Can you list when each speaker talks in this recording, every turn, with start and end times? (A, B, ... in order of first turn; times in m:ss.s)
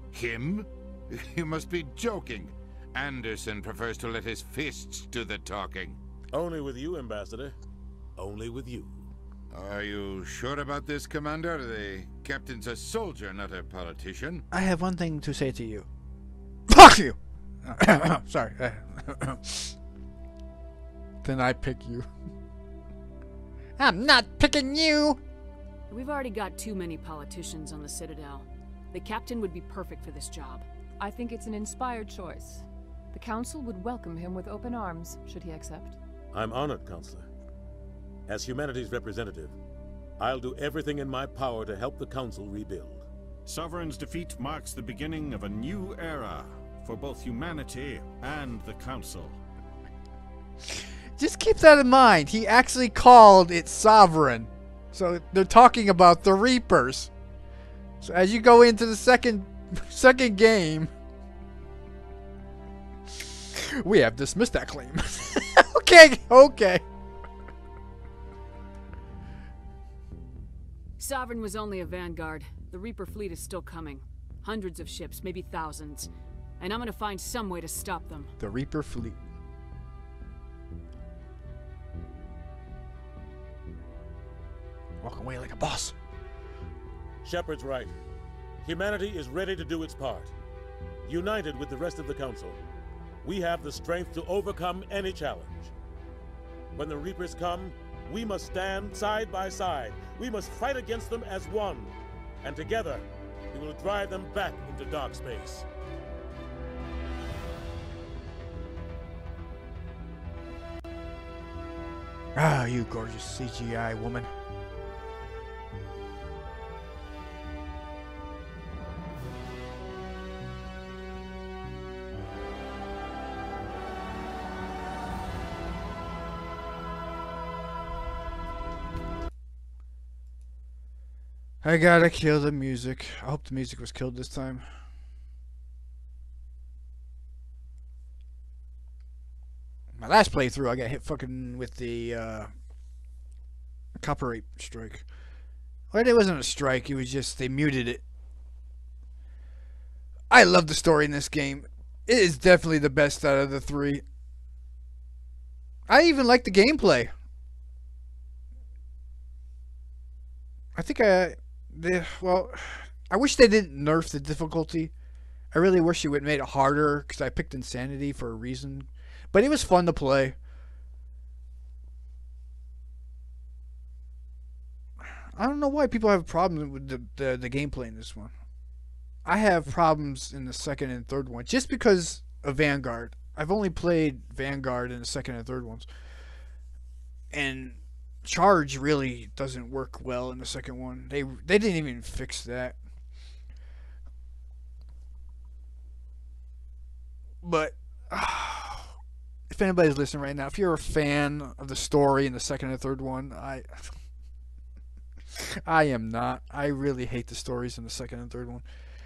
0:00.1-0:06.0 A
0:06.3-0:07.6 B
0:08.2-0:09.1 B
0:09.5-0:14.4 A
0:14.5-0:15.9 C
0:16.7-0:19.7 C
0:21.2-0:22.1 C
0:23.8-0:25.2 C
0:25.9-0:30.6 D
0:31.0-0:36.0 E
0:36.3-0:37.3 B
0:38.3-0:39.5 B
0:40.2-0:43.0 B
0:43.4-0:49.4 F
0:50.6-0:57.1 C
0:58.0-1:00.9 C
1:03.5-1:06.8 C
1:11.0-1:16.1 D
1:16.6-1:18.3 D
1:18.4-1:19.2 C
1:25.0-1:25.9 C
1:27.2-1:27.9 B
1:28.6-1:30.3 B
1:31.0-1:32.6 B
1:33.2-1:35.7 B
1:36.7-1:45.6 B
1:52.3-1:54.3 C
2:11.6-2:14.6 C
2:20.0-2:22.5 C
2:24.0-2:25.0 C
2:25.9-2:28.0 C
2:30.3-2:34.0 C
2:35.9-2:37.1 C
2:40.7-2:44.9 C
2:45.5-2:50.4 C
2:55.3-2:58.3 C
2:59.2-3:05.9 C
3:07.3-3:12.8 C
3:17.4-3:18.9 C
3:19.5-3:23.9 C
3:25.3-3:28.6 C